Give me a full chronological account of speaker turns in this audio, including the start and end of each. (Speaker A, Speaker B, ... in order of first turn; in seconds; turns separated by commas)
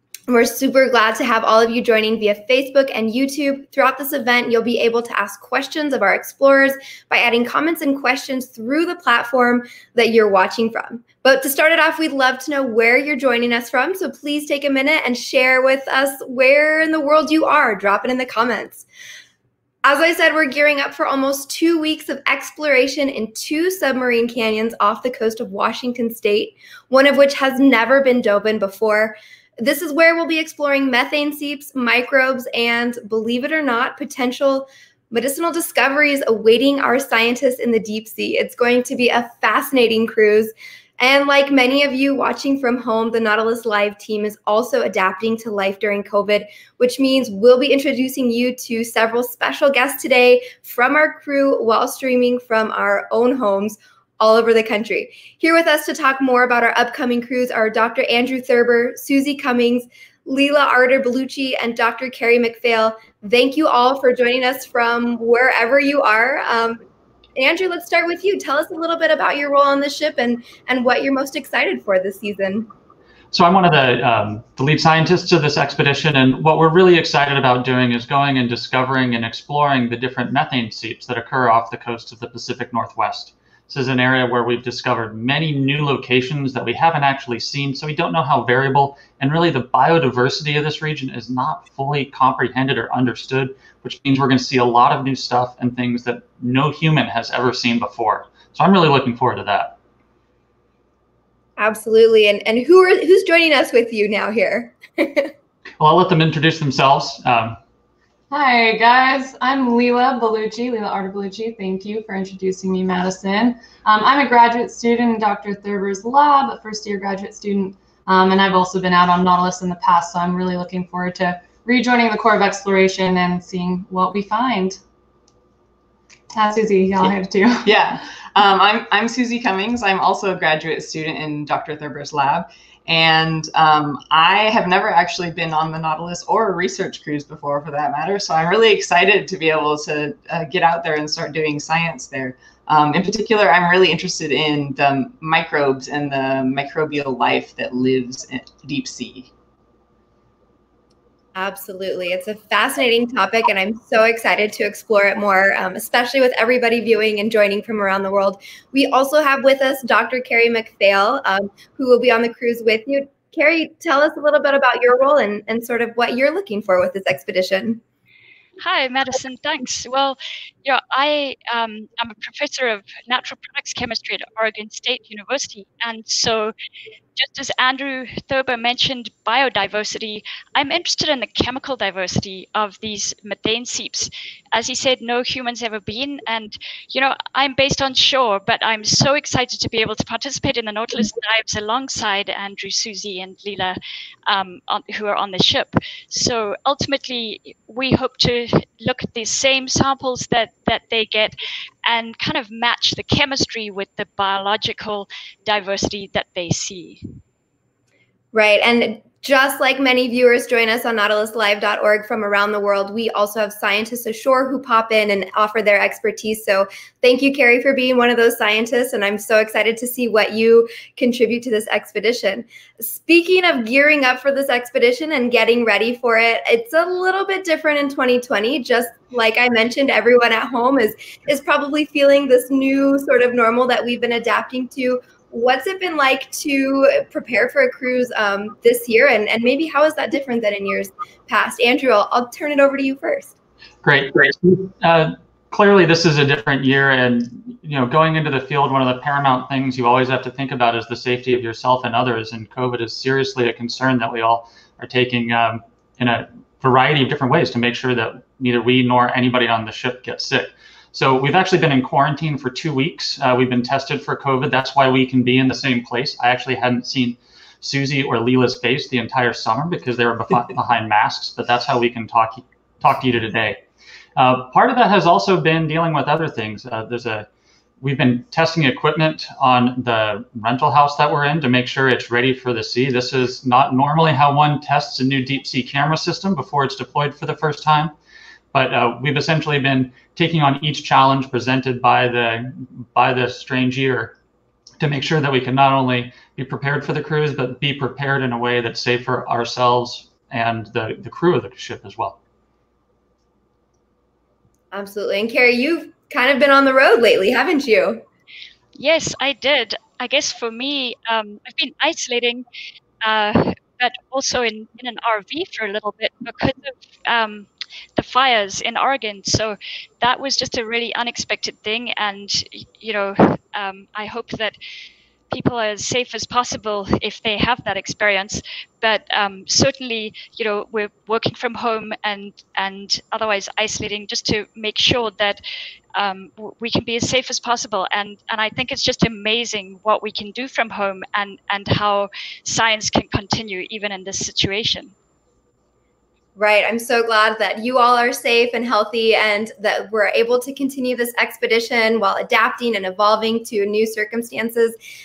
Speaker A: 0.3-18.9, Speaker A: 19.8-66.8, Speaker A: 67.3-72.7, Speaker B: 73.3-99.8, Speaker A: 101.6-105.3, Speaker B: 105.8-107.6, Speaker C: 108.3-124.8, Speaker C: 126.3-127.7, Speaker D: 127.6-149.3, Speaker A: 151.3-167.8, Speaker E: 168.6-176.5, Speaker E: 177.2-207.0, Speaker A: 208.3-243.3, Speaker B: 243.8-273.6, Speaker B: 274.1-277.3, Speaker B: 277.8-287.9, Speaker B: 288.5-294.1, Speaker B: 294.8-302.2, Speaker A: 304.7-308.1, Speaker E: 308.8-312.4, Speaker E: 313.0-324.6, Speaker E: 325.3-335.4, Speaker E: 335.9-344.9, Speaker A: 346.4-354.8